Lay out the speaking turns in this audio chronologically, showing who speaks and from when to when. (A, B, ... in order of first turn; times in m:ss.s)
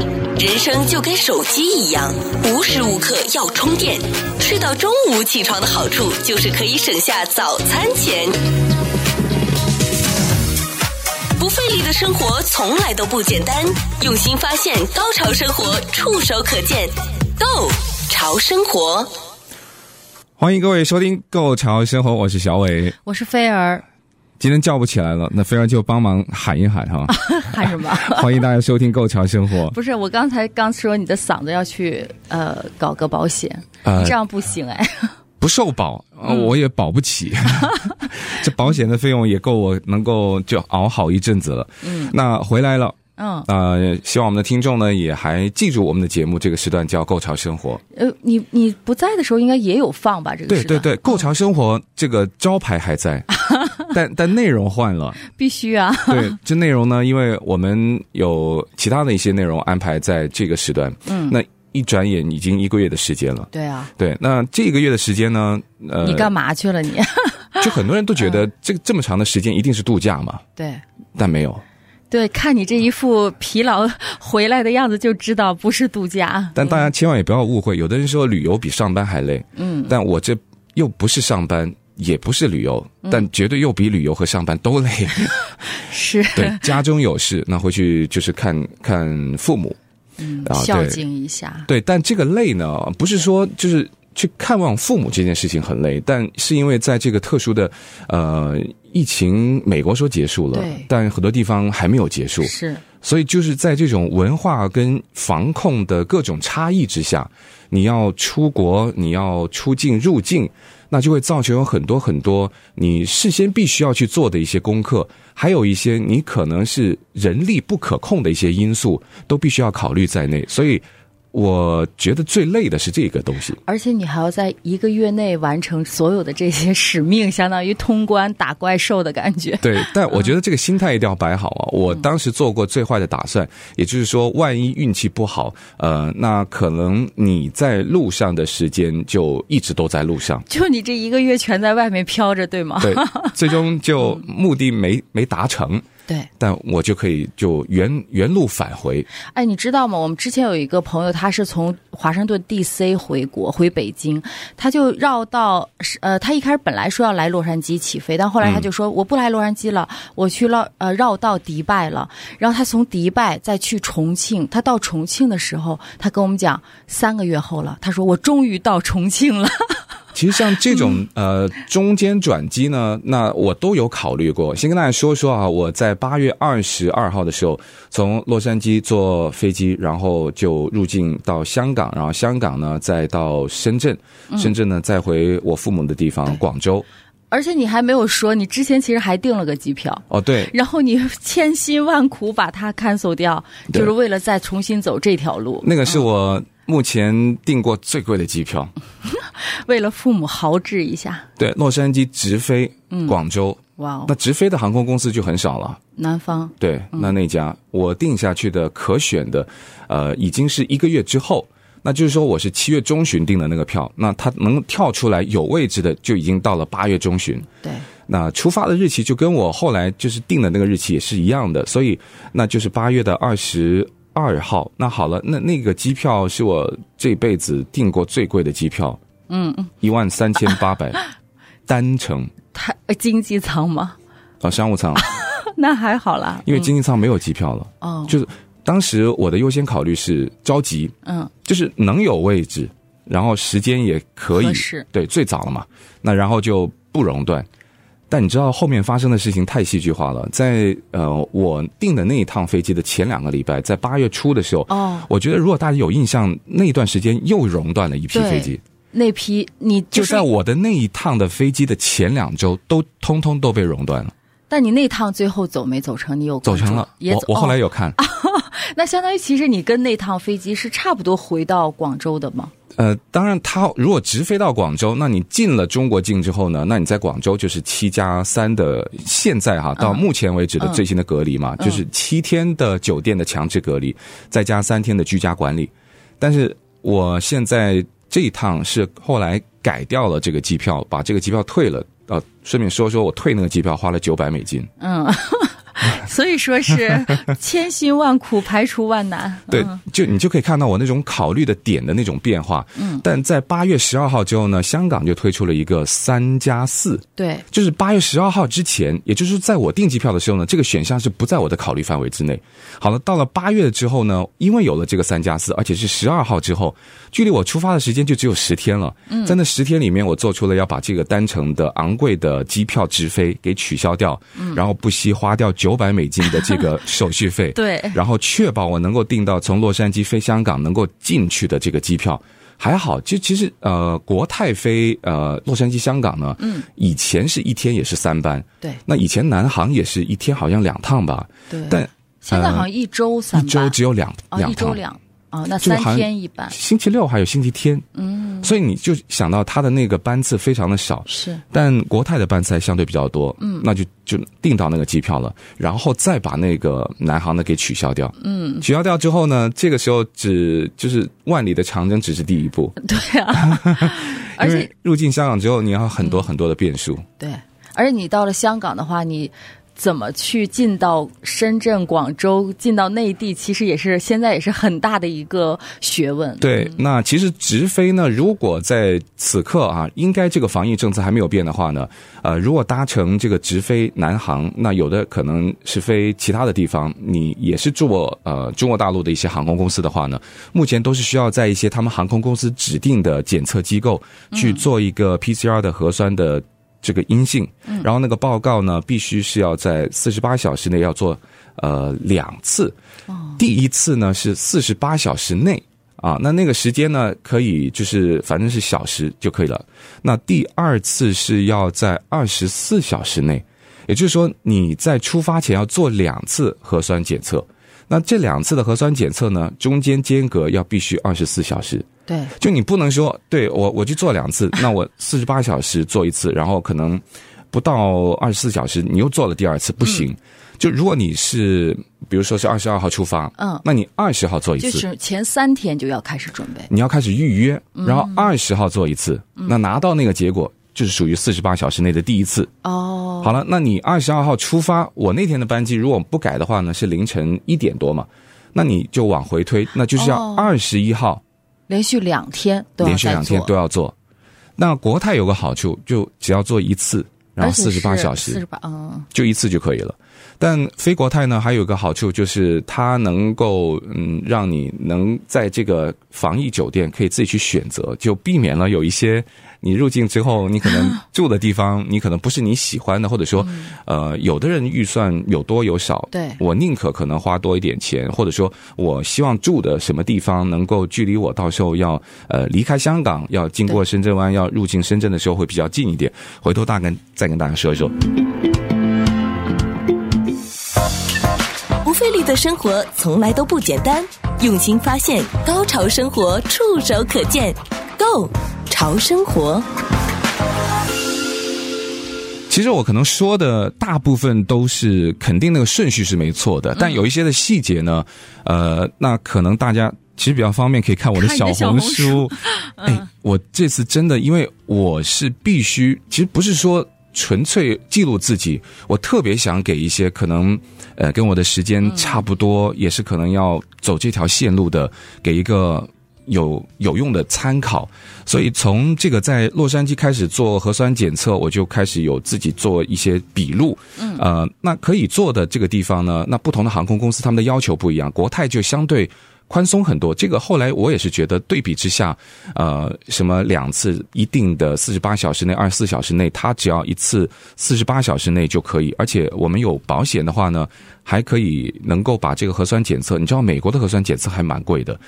0:00.4-0:08.4 A
0:11.4-0:19.1 A
0:20.4-0:23.0 B
0:23.0-0:23.8 C
0:24.4-0:29.8 B
0:27.1-0:28.4 C
0:29.7-0:35.2 C
0:33.8-0:34.2 B
0:35.4-0:47.8 B
0:36.3-0:36.5 C
0:37.6-0:37.9 C
0:41.8-0:42.1 C
0:43.2-0:43.5 C
0:47.9-0:51.3 C
0:50.5-0:53.3 B
0:53.4-0:53.8 C
0:53.9-0:55.2 B
0:55.2-0:56.4 C
0:56.1-1:06.3 B
1:01.1-1:01.4 C
1:03.5-1:03.9 C
1:06.0-1:08.4 C
1:07.6-1:10.4 B
1:10.6-1:10.8 C
1:11.2-1:11.6 B
1:12.1-1:16.9 C
1:16.6-1:25.6 B
1:19.6-1:20.0 C
1:25.2-1:26.8 C
1:26.3-1:29.8 B
1:30.2-1:31.7 C
1:30.4-1:31.0 B
1:31.7-2:03.6 B
1:40.5-1:40.9 C
1:42.4-1:42.8 C
2:03.6-2:10.3 C
2:09.6-2:20.4 B
2:20.5-2:23.4 C
2:22.8-2:25.8 B
2:26.4-2:29.1 B
2:29.3-2:49.8 C
2:38.4-2:38.7 B
2:50.2-3:06.9 B
2:50.7-2:51.0 C
3:07.3-3:16.1 C
3:10.1-3:10.5 B
3:15.6-3:18.7 B
3:19.1-3:21.3 C
3:21.4-3:25.8 B
3:22.9-3:23.2 C
3:23.8-3:24.1 C
3:26.0-3:27.1 C
3:26.6-3:37.5 B
3:38.1-3:49.0 B
3:49.3-3:49.7 C
3:49.8-3:51.0 B
3:50.5-3:51.0 C
3:51.7-3:52.3 B
3:52.5-3:54.0 C
3:54.4-3:55.0 B
3:55.0-3:56.7 C
3:56.4-4:00.9 B
3:57.8-3:58.2 C
4:01.0-4:01.3 C
4:01.4-4:07.5 B
4:04.3-4:04.8 C
4:08.1-4:18.6 B
4:14.7-4:15.1 C
4:18.1-4:20.3 C
4:19.9-4:24.1 B
4:24.5-4:32.5 C
4:26.4-4:28.0 B
4:32.8-4:54.7 B
4:39.8-4:40.0 C
4:54.8-4:59.8 C
4:56.8-4:57.1 B
4:59.5-5:42.7 B
5:02.8-5:03.0 C
5:07.2-5:07.4 C
5:19.1-5:19.4 C
5:24.4-5:24.6 C
5:27.6-5:28.0 C
5:36.4-5:36.7 C
5:41.5-5:43.8 C
5:43.3-5:44.8 B
5:44.3-5:46.6 C
5:45.6-5:47.9 B
5:48.0-5:48.5 C
5:48.4-6:02.8 B
5:51.1-5:51.4 C
5:53.4-5:53.7 C
5:58.2-5:58.7 C
6:02.8-6:04.7 C
6:03.3-6:07.1 B
6:07.2-6:16.8 C
6:16.4-6:42.8 B
6:34.3-6:34.6 C
6:43.1-6:43.4 C
6:43.4-7:14.8 B
7:02.1-7:02.3 C
7:13.4-7:13.6 C
7:14.6-7:16.7 C
7:16.7-7:22.5 B
7:17.8-7:18.3 C
7:22.6-7:23.4 C
7:23.2-7:31.2 B
7:30.0-7:30.5 C
7:31.7-7:33.5 C
7:32.8-7:34.0 B
7:34.6-7:38.4 B
7:37.4-7:39.1 C
7:39.1-8:08.0 B
7:53.4-7:53.7 C
7:56.1-7:56.4 C
8:11.8-8:19.7 A
8:22.5-9:15.0 B
8:26.8-8:27.0 C
8:31.2-8:33.1 C
8:41.8-8:42.2 C
8:54.0-8:54.2 C